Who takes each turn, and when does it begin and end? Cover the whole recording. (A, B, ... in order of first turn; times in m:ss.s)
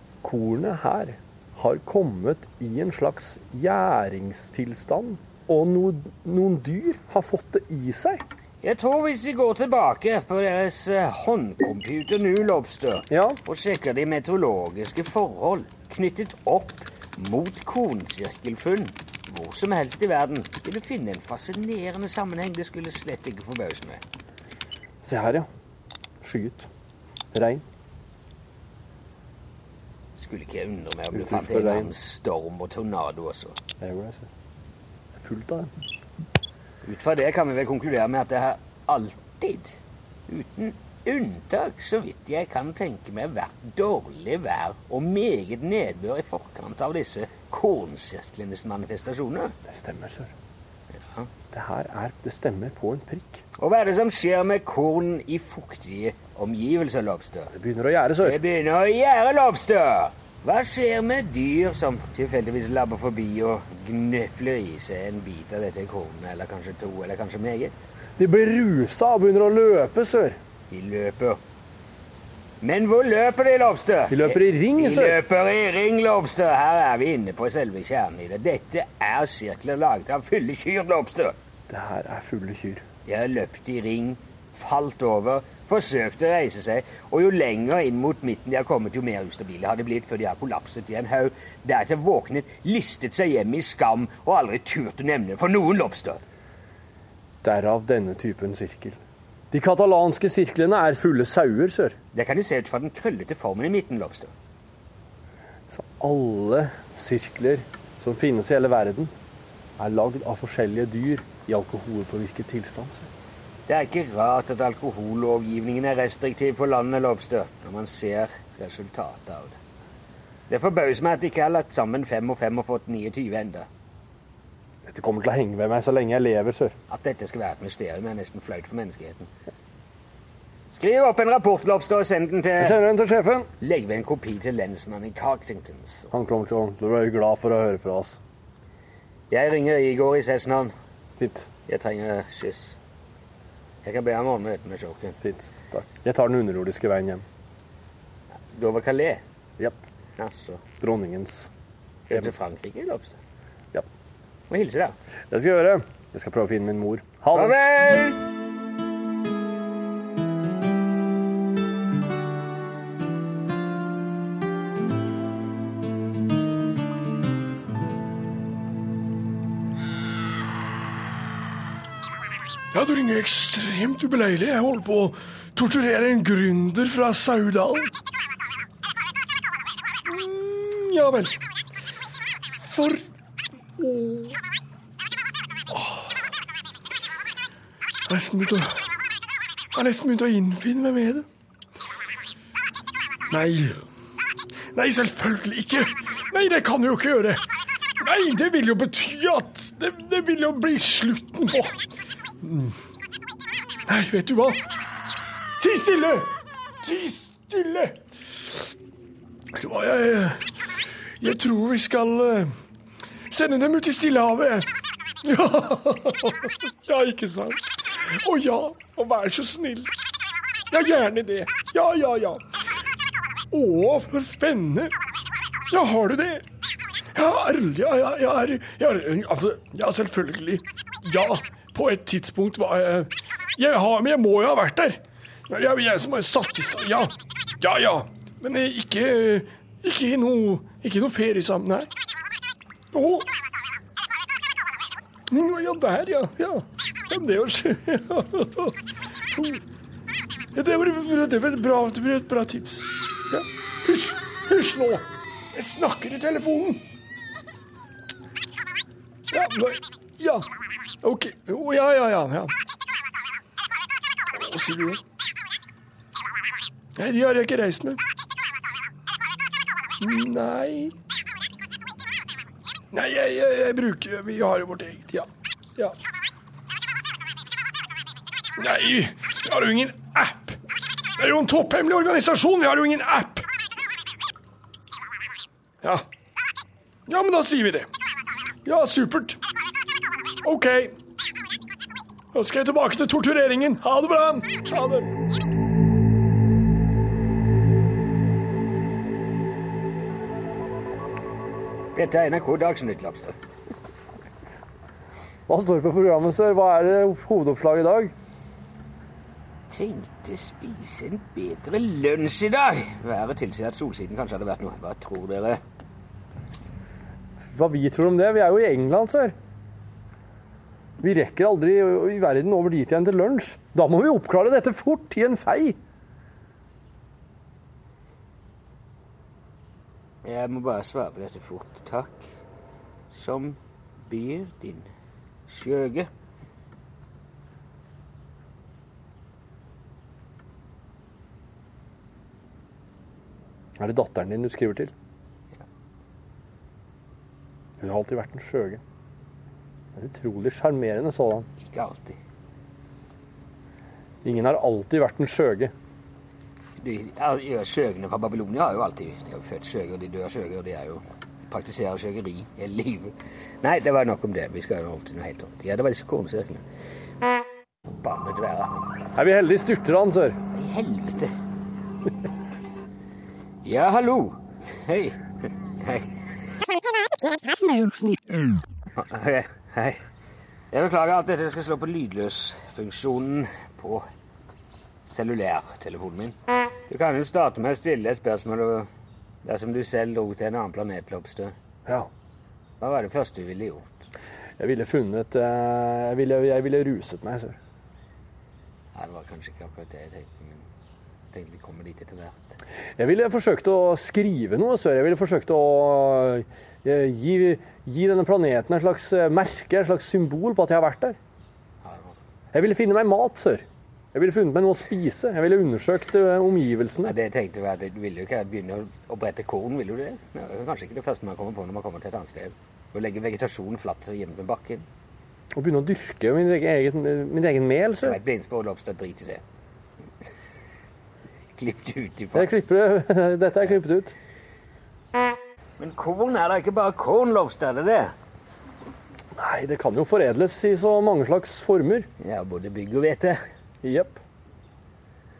0:00.2-0:08.2 A
0:08.6-0:24.0 B
0:13.1-0:13.4 A
0:25.0-0:25.5 A
0:26.2-0:26.7 A
0:27.3-0:27.6 A
0:30.2-0:33.6 B
0:31.1-0:31.9 A
0:33.8-0:34.3 A
0:35.2-0:35.7 A
0:36.8-0:49.6 B
0:49.7-0:50.3 A
0:50.9-0:51.3 B
0:51.5-0:53.4 A
0:53.6-0:57.5 B
0:57.5-0:58.4 A
0:58.2-1:07.8 B
1:08.2-1:10.4 A
1:10.7-1:11.4 B
1:12.6-1:21.4 B
1:14.1-1:15.2 A
1:21.7-1:22.8 A
1:23.1-1:36.2 B
1:37.4-1:39.0 A
1:39.5-1:42.0 A
1:42.1-1:44.3 B
1:45.7-1:49.1 A
1:49.8-1:53.1 A
1:53.7-1:59.6 B
2:00.5-2:03.7 B
2:04.9-2:06.7 A
2:06.9-2:09.3 B
2:10.7-2:12.8 B
2:12.6-2:13.5 A
2:13.6-2:16.1 B
2:16.1-2:18.2 A
2:19.3-2:20.7 B
2:21.2-2:21.5 A
2:21.7-2:22.8 B
2:23.8-2:25.2 B
2:25.2-2:27.2 A
2:28.5-2:29.2 B
2:30.2-2:30.6 B
2:30.8-2:31.5 A
2:32.1-2:33.2 B
2:34.5-2:35.0 B
2:35.3-2:37.7 A
2:37.3-2:38.2 B
2:52.7-2:57.9 C
3:00.1-3:01.4 C
3:02.6-3:03.0 C
3:03.8-3:04.4 C
3:05.7-3:06.2 C
3:08.1-3:08.9 C
3:09.7-3:11.3 C
3:13.3-3:13.8 C
3:14.7-3:17.4 C
3:18.0-3:21.8 C
3:22.4-3:22.8 C
3:23.9-3:24.6 C
3:25.6-3:26.3 C
3:26.8-3:28.0 C
3:29.6-3:30.4 C
3:31.2-3:32.5 C
3:33.3-3:34.7 C
3:35.2-3:39.9 C
3:40.7-3:42.4 C
3:43.5-3:44.9 C
3:45.7-3:46.4 C
3:47.1-4:01.9 C
4:02.9-4:03.3 C
4:05.3-4:08.8 C
4:09.3-4:09.6 C
4:10.6-4:16.8 C
4:19.3-4:20.4 C
4:21.0-4:22.5 C
4:24.4-4:25.0 C
4:27.0-4:28.0 C
4:30.0-4:30.9 C
4:32.9-4:36.0 C
4:38.6-4:40.6 C
4:41.2-4:43.5 C
4:47.1-4:47.9 C
4:48.6-4:49.4 C
4:50.4-4:50.9 C
4:52.3-4:55.1 C
5:02.0-5:03.4 B
5:05.5-5:08.1 A
5:09.7-5:15.6 B
5:17.4-5:19.3 A
5:21.0-5:25.8 A
5:30.2-5:32.3 B
5:33.1-5:34.9 B
5:35.5-5:36.1 B
5:43.8-5:44.9 A
5:47.8-5:48.8 A
5:50.0-5:51.5 A
5:51.6-5:52.2 B
5:54.2-5:55.7 A
5:56.8-6:06.6 B
6:07.9-6:08.9 B
6:09.2-6:10.4 A
6:10.5-6:11.3 B
6:13.6-6:15.2 B
6:15.8-6:16.1 B
6:18.9-6:20.0 B
6:20.7-6:24.1 B
6:25.1-6:26.4 B
6:26.9-6:28.9 B
6:29.4-6:31.6 B
6:32.8-6:34.1 B
6:34.6-6:37.6 A
6:38.9-6:40.6 B
6:41.3-6:42.6 B
6:43.0-6:51.2 A
6:51.8-6:52.2 B
6:52.5-6:57.1 A
6:57.0-7:04.9 B
7:05.6-7:08.2 A
7:08.0-7:09.4 B
7:11.6-7:12.6 B
7:12.4-7:14.1 A
7:15.8-7:18.1 B
7:19.4-7:22.1 A
7:22.2-7:23.4 B
7:23.8-7:24.2 A